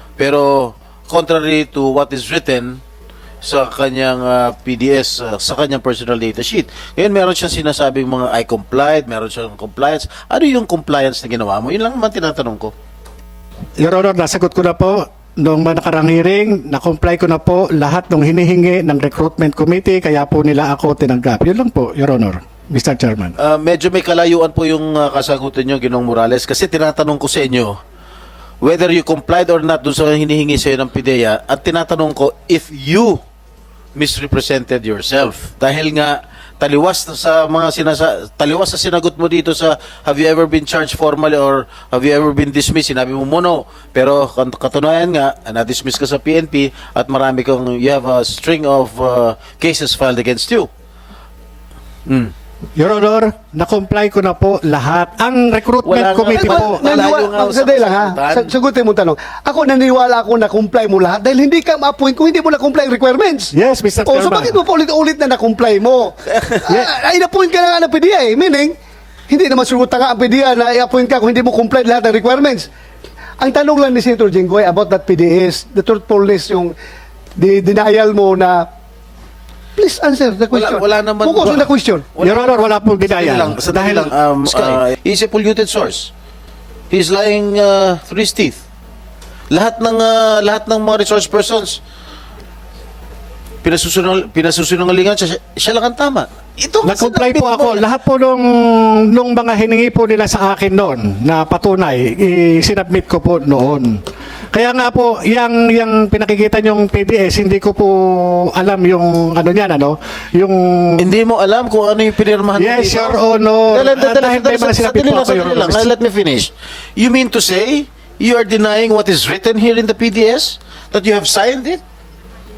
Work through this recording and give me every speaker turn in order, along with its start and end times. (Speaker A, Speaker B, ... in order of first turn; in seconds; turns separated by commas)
Speaker A: 0.2-2.8, Speaker A: 3.4-12.7, Speaker B: 13.8-23.3, Speaker A: 23.4-27.8, Speaker A: 28.6-33.2, Speaker A: 34.0-50.7, Speaker A: 52.1-52.3, Speaker B: 52.8-57.0, Speaker A: 55.8-58.5, Speaker C: 56.3-63.5, Speaker B: 63.5-64.6, Speaker C: 64.0-68.7, Speaker C: 69.3-72.7, Speaker C: 73.4-76.7, Speaker C: 77.4-78.7, Speaker C: 79.8-82.1, Speaker A: 80.5-86.1, Speaker B: 82.2-84.1, Speaker A: 86.9-88.6, Speaker A: 89.5-91.8, Speaker A: 93.6-97.8, Speaker B: 96.8-104.0, Speaker B: 104.5-111.0, Speaker A: 111.0-121.8, Speaker B: 112.6-115.8